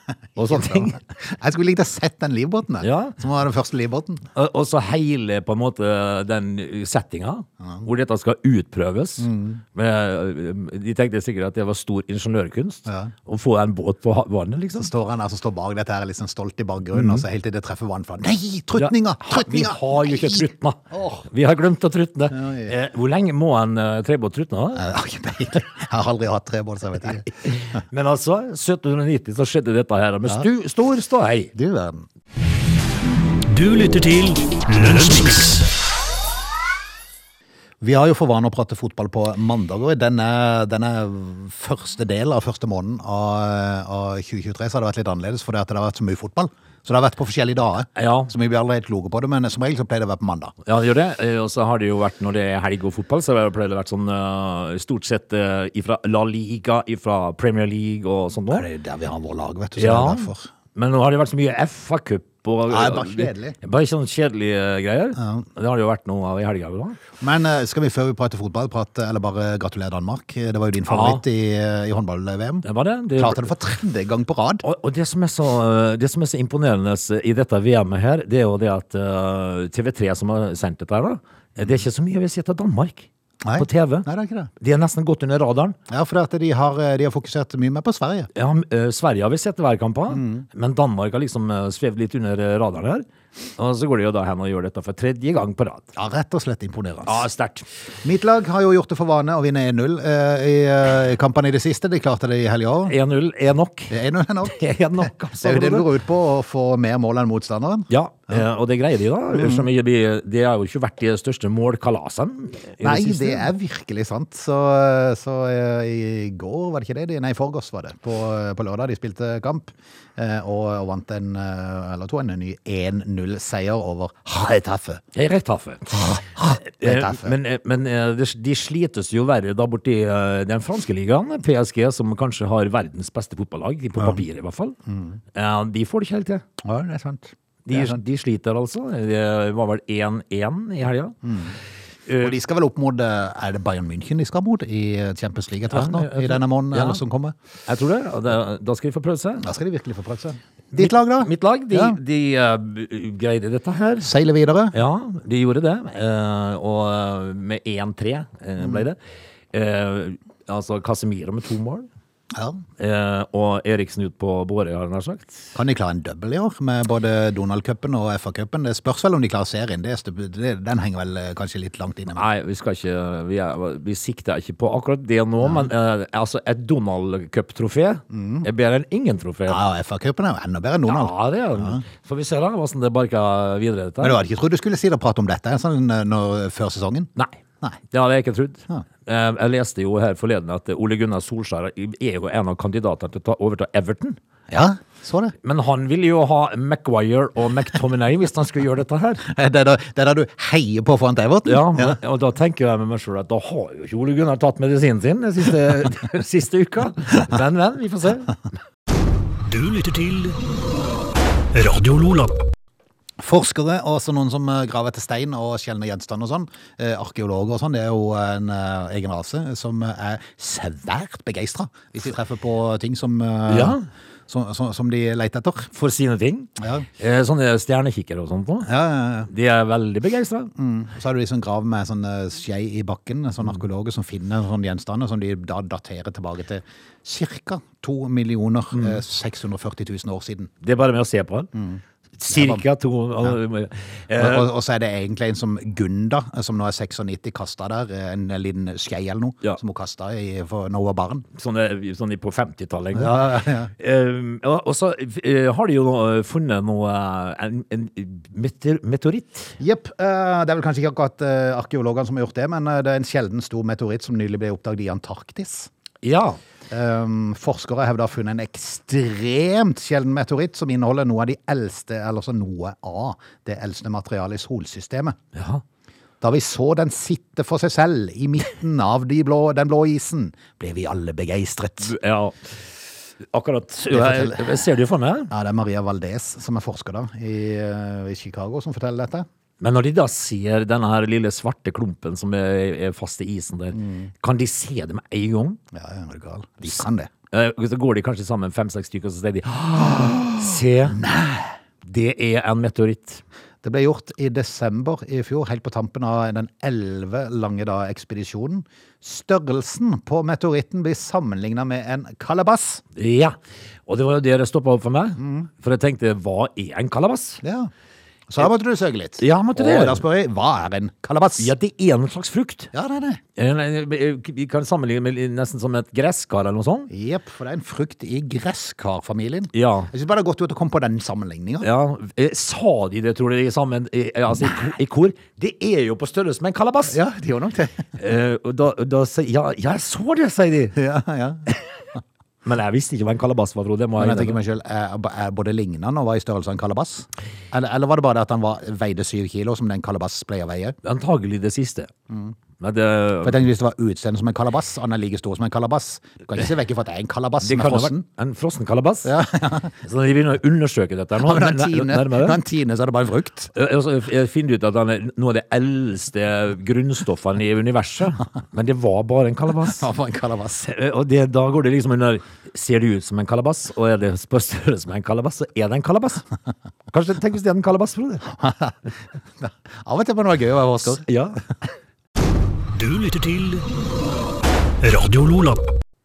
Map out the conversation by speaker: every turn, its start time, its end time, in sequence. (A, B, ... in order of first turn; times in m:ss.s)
0:00.4-0:01.0 A
0:00.4-0:04.2 B
0:02.8-0:03.2 A
0:04.3-0:14.9 A
0:09.2-0:09.6 B
0:12.8-0:13.1 B
0:14.8-0:21.2 B
0:16.9-0:17.2 A
0:18.8-0:24.8 A
0:22.3-0:22.7 B
0:24.8-0:27.3 B
0:27.4-0:31.5 A
0:31.5-0:32.0 B
0:33.5-0:35.7 C
0:37.8-0:50.5 B
0:48.0-0:48.3 A
0:50.6-0:58.6 A
0:58.5-1:00.5 B
0:59.8-1:07.0 A
1:02.7-1:03.6 B
1:05.2-1:05.5 B
1:07.2-1:14.6 B
1:10.8-1:11.2 A
1:12.6-1:13.5 A
1:14.6-1:24.1 A
1:23.4-1:24.5 B
1:24.6-1:25.8 A
1:25.9-1:28.3 B
1:28.3-1:33.0 A
1:30.1-1:30.4 B
1:33.6-1:35.9 A
1:35.9-1:37.2 B
1:37.0-1:37.6 A
1:38.0-1:42.9 B
1:42.9-1:43.9 A
1:43.9-1:48.4 B
1:44.4-1:45.9 A
1:47.9-1:53.5 A
1:49.3-1:49.6 B
1:52.8-2:05.0 B
2:05.1-2:14.8 A
2:06.0-2:07.3 B
2:14.9-2:15.2 B
2:15.3-2:16.4 A
2:16.6-2:18.0 B
2:17.6-2:21.2 A
2:21.2-2:21.6 B
2:22.1-2:22.3 A
2:22.2-2:27.4 B
2:25.7-2:27.0 A
2:27.7-2:29.4 A
2:29.4-2:32.0 B
2:30.7-2:34.1 A
2:34.0-2:34.7 B
2:34.7-2:39.0 A
2:38.6-2:38.8 B
2:39.5-2:41.9 A
2:42.3-2:42.6 B
2:42.8-2:45.5 A
2:45.5-2:52.2 B
2:52.1-2:59.6 A
2:55.4-2:55.7 B
2:58.1-2:58.4 B
2:59.5-3:01.8 B
3:00.9-3:04.2 A
3:04.0-3:07.1 B
3:07.9-3:14.2 A
3:14.5-3:15.3 B
3:15.4-3:19.2 A
3:19.2-3:22.0 B
3:21.4-3:28.4 A
3:29.4-3:30.4 C
3:31.5-3:32.4 C
3:33.2-3:45.7 B
3:43.5-3:43.8 A
3:45.7-3:48.7 A
3:46.6-3:46.8 B
3:48.6-3:49.3 B
3:49.3-3:50.5 A
3:50.5-4:00.5 B
3:58.7-3:59.0 A
4:00.6-4:01.5 A
4:01.5-4:02.6 B
4:02.2-4:04.5 A
4:04.2-4:11.2 B
4:11.4-4:19.6 A
4:12.9-4:13.7 B
4:19.6-4:25.7 B
4:26.0-4:26.4 A
4:26.7-4:35.2 B
4:35.3-4:35.6 A
4:36.2-4:41.9 B
4:41.8-4:42.6 A
4:43.3-4:45.3 A
4:43.9-4:44.6 B
4:45.3-4:49.2 B
4:49.6-4:55.6 A
4:53.7-4:54.1 B
4:55.7-4:57.1 B
4:57.3-5:01.0 A
5:00.4-5:01.5 B
5:01.8-5:03.2 A
5:03.6-5:12.8 B
5:13.0-5:13.4 A
5:13.9-5:17.4 A
5:15.2-5:15.5 B
5:17.4-5:17.7 B
5:18.3-5:21.5 B
5:19.2-5:20.0 A
5:21.4-5:22.7 A
5:22.7-5:23.2 B
5:23.4-5:26.9 A
5:26.9-5:31.7 B
5:29.5-5:29.9 A
5:31.6-5:37.0 A
5:36.9-5:37.9 B
5:38.0-5:40.8 A
5:40.7-5:41.5 B
5:42.4-5:44.4 A
5:44.0-5:50.8 B
5:50.8-5:51.9 A
5:52.1-5:52.3 B
5:52.6-5:53.4 A
5:53.2-5:58.0 B
5:57.4-5:59.1 A
5:59.0-5:59.7 B
5:59.8-6:02.4 A
6:01.2-6:03.5 B
6:03.5-6:09.8 A
6:09.7-6:10.7 B
6:10.6-6:16.3 A
6:16.9-6:18.3 A
6:18.4-6:18.8 B
6:19.4-6:21.0 B
6:20.8-6:21.4 A
6:22.7-6:23.7 C
6:24.8-6:25.7 C